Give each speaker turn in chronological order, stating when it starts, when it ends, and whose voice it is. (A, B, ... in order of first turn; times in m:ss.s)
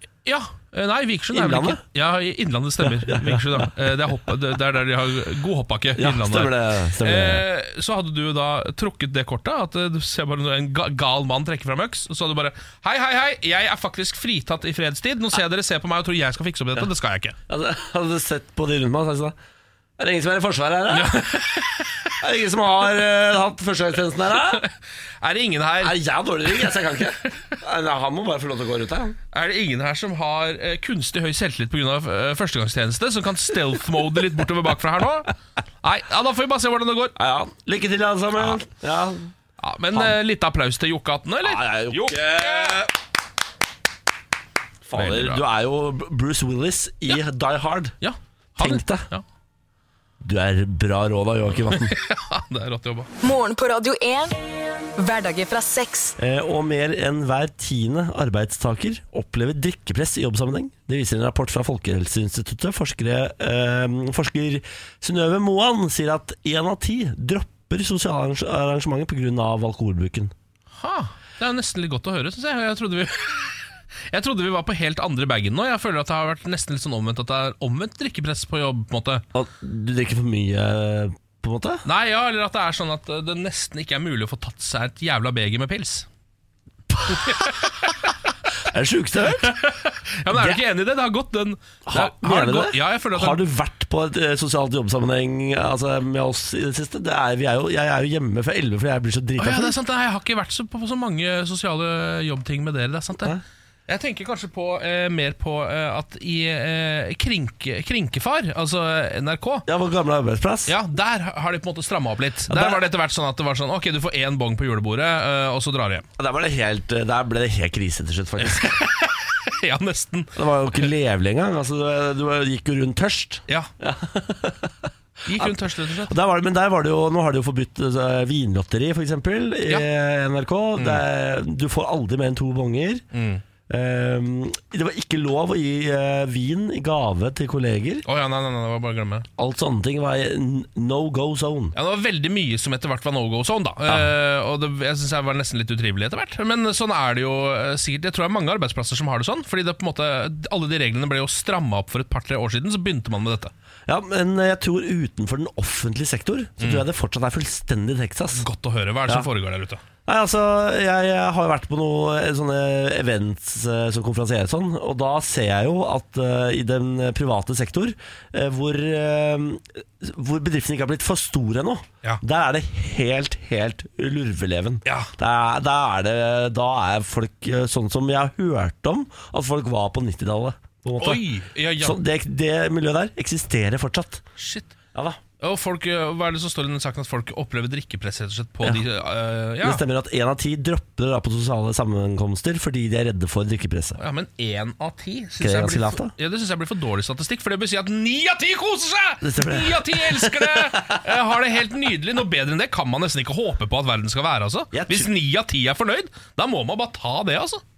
0:00.2-0:17.4 A
0:01.3-0:01.8 B
0:02.8-0:03.7 B
0:06.0-0:07.4 B
0:17.5-0:19.3 B
0:20.0-0:21.4 B
0:20.9-0:22.1 A
0:22.2-0:24.6 B
0:24.3-0:27.0 A
0:25.8-0:29.2 B
0:29.3-0:37.1 A
0:37.2-0:39.3 B
0:38.4-0:38.6 A
0:39.6-0:42.9 A
0:41.4-0:42.9 B
0:44.8-0:48.0 B
0:44.9-0:45.4 A
0:48.0-0:49.2 A
0:48.6-0:49.1 B
0:50.2-0:51.9 B
0:51.5-0:53.1 A
0:53.2-0:54.4 C
0:55.0-0:56.2 C
0:56.2-1:10.3 B
1:10.8-1:19.2 A
1:19.3-1:21.8 B
1:21.8-1:26.1 A
1:26.9-1:27.6 B
1:27.1-1:28.1 A
1:28.6-1:29.6 B
1:29.3-1:33.4 A
1:30.3-1:30.6 B
1:31.8-1:39.8 B
1:39.4-1:43.3 A
1:43.9-1:49.7 A
1:49.7-1:50.7 B
1:50.7-1:56.0 A
1:52.5-1:52.8 B
1:56.2-1:58.9 B
1:58.4-2:00.9 A
2:00.4-2:13.0 B
2:05.2-2:06.1 A
2:10.8-2:11.0 A
2:13.1-2:13.4 A
2:13.7-2:18.0 B
2:18.0-2:19.3 A
2:19.4-2:21.7 B
2:21.7-2:33.5 A
2:33.9-2:38.4 B
2:36.6-2:36.8 A
2:38.3-2:39.8 A
2:40.0-3:01.2 B
2:54.8-2:55.1 A
3:01.0-3:02.0 A
3:01.8-3:04.2 B
3:04.4-3:04.7 A
3:05.4-3:09.8 A
3:09.6-3:14.0 B
3:14.0-3:27.6 A
3:15.4-3:16.1 B
3:19.2-3:21.0 B
3:24.7-3:25.1 B